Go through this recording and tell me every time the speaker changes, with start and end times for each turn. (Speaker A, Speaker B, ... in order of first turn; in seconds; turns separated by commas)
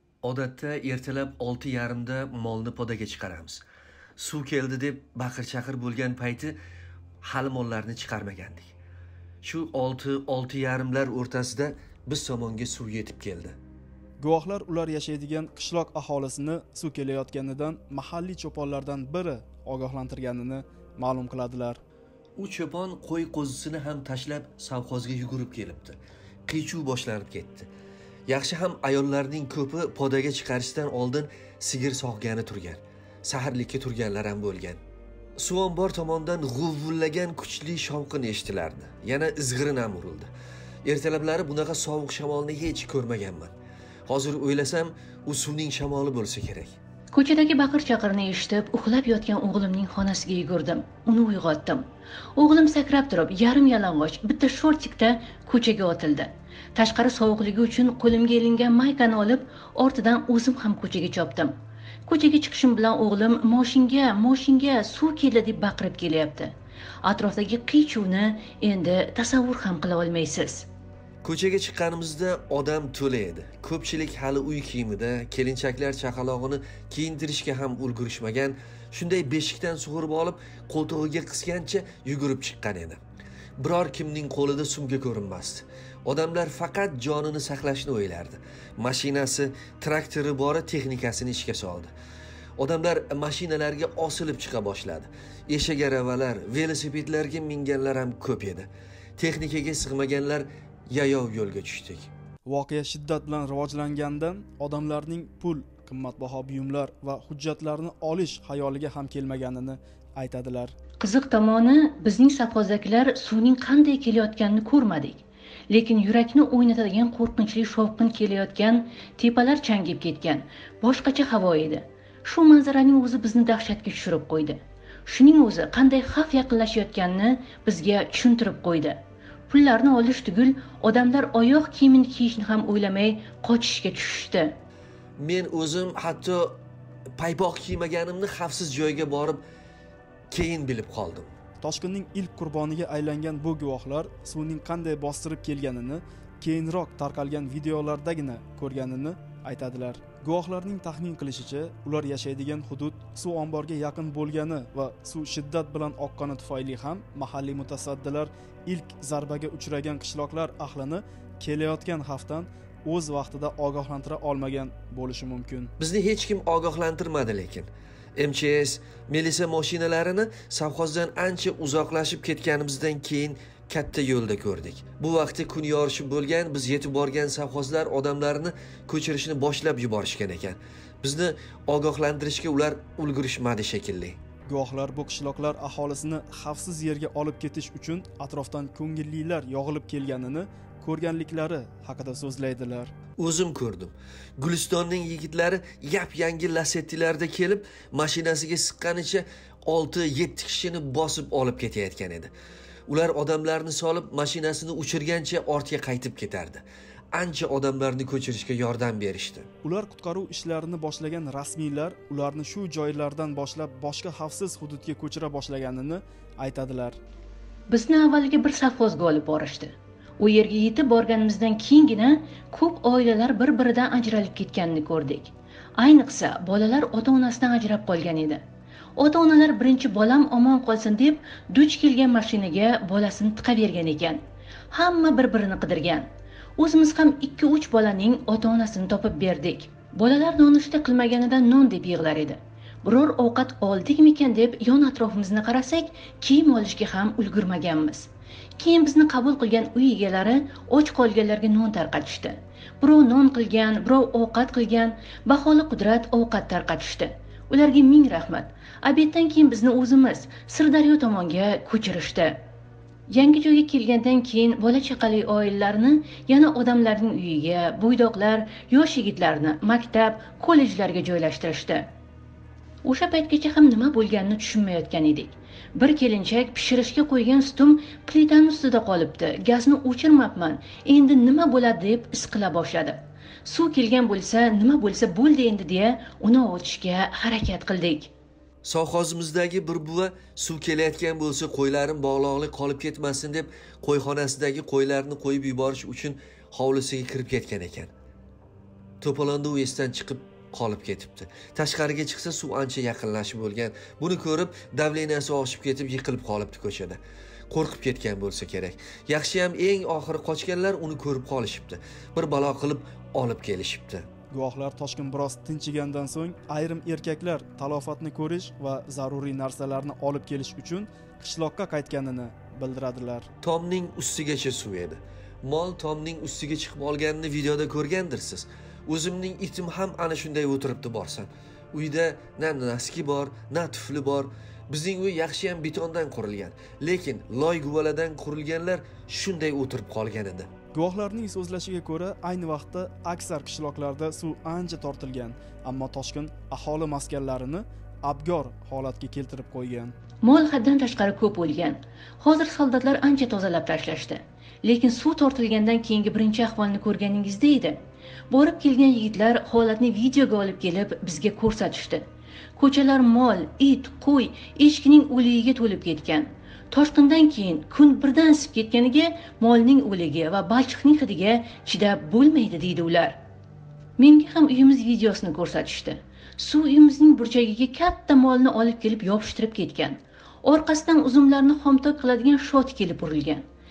Speaker A: 0.2-3.6, Speaker A: 4.2-6.6, Speaker A: 7.2-8.7, Speaker A: 9.4-13.6, Speaker B: 14.2-21.8, Speaker A: 22.4-27.7, Speaker A: 28.3-34.8, Speaker A: 35.4-40.3, Speaker A: 40.8-43.5, Speaker A: 44.1-46.7, Speaker C: 47.1-51.8, Speaker C: 52.4-61.5, Speaker C: 62.1-70.7, Speaker A: 71.2-83.0, Speaker A: 83.6-91.9, Speaker A: 92.6-102.1, Speaker B: 102.5-110.7, Speaker C: 111.0-134.6, Speaker A: 135.2-136.6, Speaker A: 137.2-139.4, Speaker A: 140.3-141.3, Speaker B: 141.6-165.7, Speaker A: 165.8-184.2, Speaker B: 184.5-192.9, Speaker A: 193.2-202.3, Speaker A: 202.9-209.5, Speaker B: 209.6-217.0, Speaker C: 217.7-228.4, Speaker C: 229.0-262.4, Speaker C: 263.1-271.9, Speaker C: 272.8-288.1, Speaker A: 288.6-297.9, Speaker A: 299.0-314.1, Speaker B: 314.3-323.3, Speaker A: 323.4-340.5, Speaker B: 340.7-349.9, Speaker C: 350.2-373.2, Speaker C: 374.0-383.4